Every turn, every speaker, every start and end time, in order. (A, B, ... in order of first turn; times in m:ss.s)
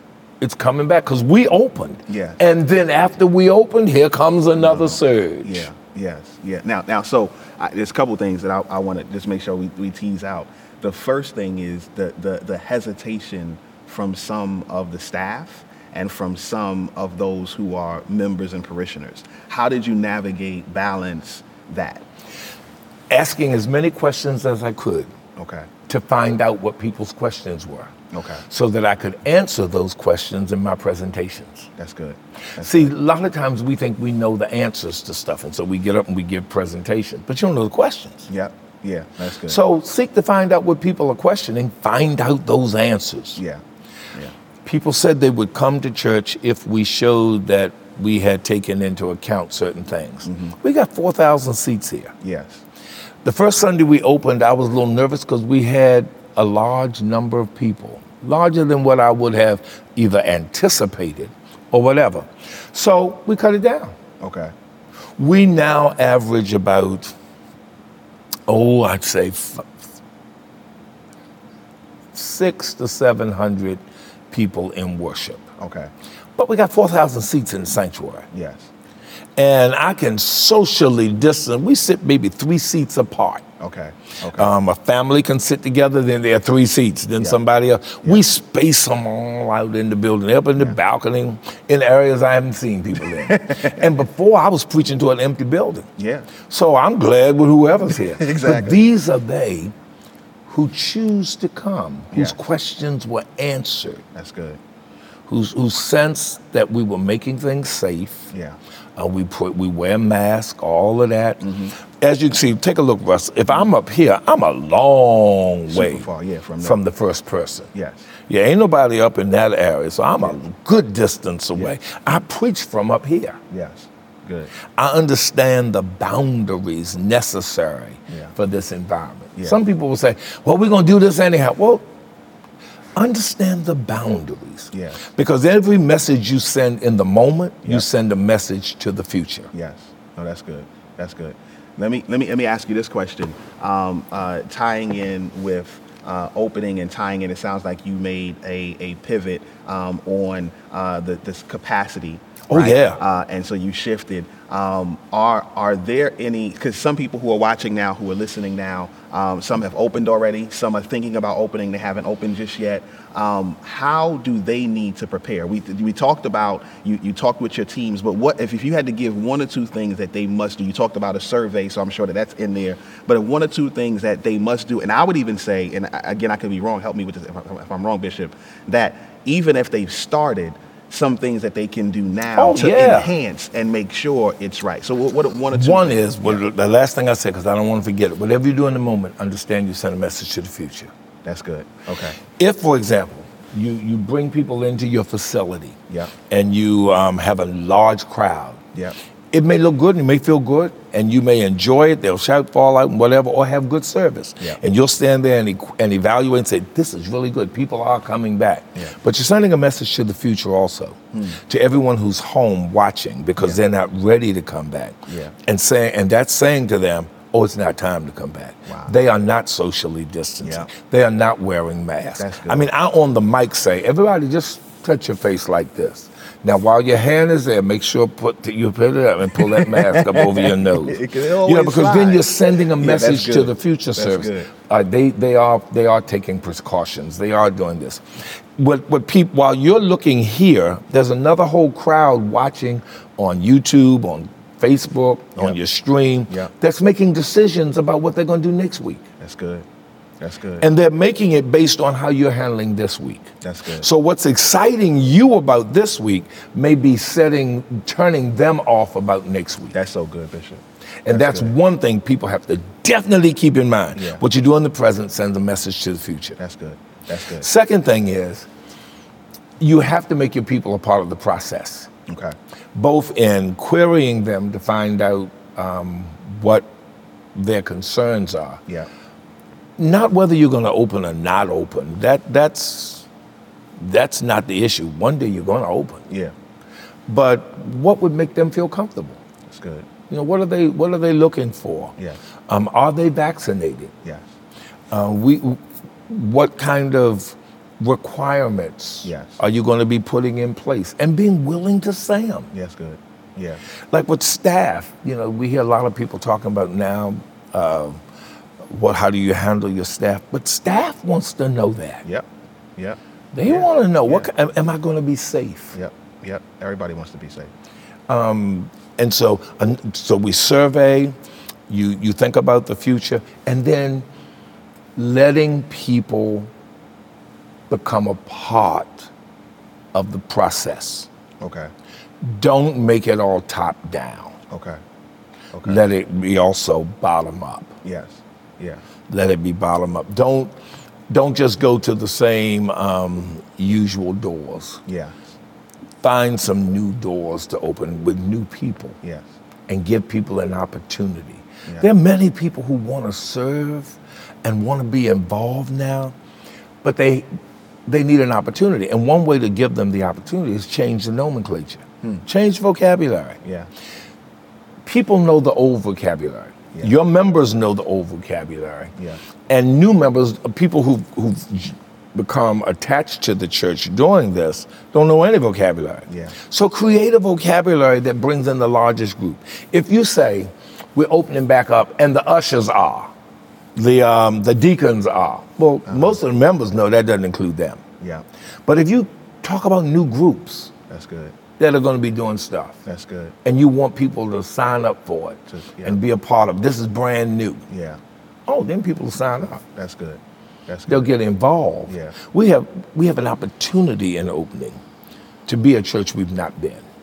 0:00.4-0:05.7 A
0:02.1-0:02.4 B
0:04.6-0:22.0 B
0:23.1-0:25.1 A
0:25.4-0:25.7 B
0:25.9-0:27.9 A
0:28.1-0:28.4 B
0:28.5-0:31.7 A
0:31.8-0:32.9 B
0:32.6-0:38.3 A
0:38.3-0:39.6 B
0:39.4-0:43.4 A
0:43.4-0:43.6 B
0:44.6-0:52.1 A
0:50.2-0:50.5 B
0:52.2-0:52.6 B
0:53.2-1:03.9 A
1:04.2-1:04.5 B
1:05.2-1:07.1 A
1:08.5-1:09.7 A
1:12.1-1:15.5 A
1:15.6-1:15.9 B
1:16.4-1:18.3 A
1:18.3-1:18.7 B
1:19.4-1:23.4 A
1:23.6-1:24.5 B
1:24.3-1:35.9 A
1:33.1-1:33.9 B
1:36.0-1:36.3 B
1:36.4-1:39.7 A
1:38.0-1:38.8 B
1:40.5-1:44.0 A
1:44.1-1:44.6 B
1:45.3-1:48.3 A
1:48.3-1:48.6 B
1:49.0-1:56.1 A
1:51.4-1:51.7 B
1:55.7-1:56.8 B
1:56.6-1:57.7 A
1:57.7-1:58.0 B
1:58.3-2:03.4 A
2:03.5-2:04.5 B
2:04.8-2:11.8 A
2:13.0-2:19.5 A
2:14.7-2:15.0 B
2:19.5-3:06.4 B
2:32.5-2:33.0 A
3:02.4-3:03.1 A
3:05.5-3:10.9 A
3:11.2-3:12.2 B
3:12.4-3:18.6 A
3:19.3-3:58.0 A
3:35.1-3:35.3 B
3:38.7-3:38.9 B
3:40.4-3:40.7 B
3:42.2-3:42.7 B
3:49.4-3:54.5 B
3:58.6-4:09.0 A
4:09.2-4:09.6 B
4:10.2-4:10.6 B
4:10.6-4:19.7 A
4:13.4-4:13.9 B
4:19.7-4:21.5 B
4:21.0-4:26.4 A
4:24.0-4:24.2 B
4:26.4-4:27.5 B
4:27.4-4:28.5 A
4:29.6-4:31.9 A
4:32.1-4:32.3 B
4:32.7-4:36.7 A
4:37.3-4:38.6 A
4:39.8-4:43.1 A
4:43.8-4:46.1 A
4:47.1-4:49.2 A
4:49.5-4:49.9 B
4:50.1-4:51.9 A
4:52.5-4:53.9 A
4:54.9-5:02.5 A
4:59.0-4:59.4 B
5:02.5-5:03.6 B
5:03.9-5:08.0 A
5:08.6-5:12.0 A
5:12.0-5:14.3 B
5:13.3-5:15.8 A
5:15.7-5:17.5 B
5:18.1-5:21.1 A
5:21.7-5:24.0 A
5:25.0-5:26.5 A
5:27.7-5:29.1 A
5:29.9-5:31.1 A
5:31.4-5:31.7 B
5:32.2-5:34.4 A
5:34.5-5:34.8 B
5:35.5-5:35.8 B
5:35.6-5:37.7 A
5:37.8-5:38.8 B
5:39.1-5:40.5 A
5:41.1-5:44.8 A
5:44.9-5:45.1 B
5:46.0-5:49.0 A
5:49.7-5:56.1 A
5:56.8-5:57.3 A
5:57.9-6:03.4 A
6:03.4-6:03.7 B
6:04.8-6:08.9 A
6:09.5-6:23.1 A
6:16.1-6:16.3 B
6:23.8-6:27.8 A
6:25.9-6:26.2 B
6:28.6-6:30.7 A
6:30.9-6:31.4 B
6:31.6-6:32.8 A
6:32.8-6:33.3 B
6:33.4-6:37.6 A
6:35.5-6:36.0 B
6:37.7-6:38.0 B
6:38.5-6:39.6 A
6:39.5-6:41.1 B
6:40.9-6:44.8 A
6:41.9-6:42.1 B
6:45.5-6:46.8 A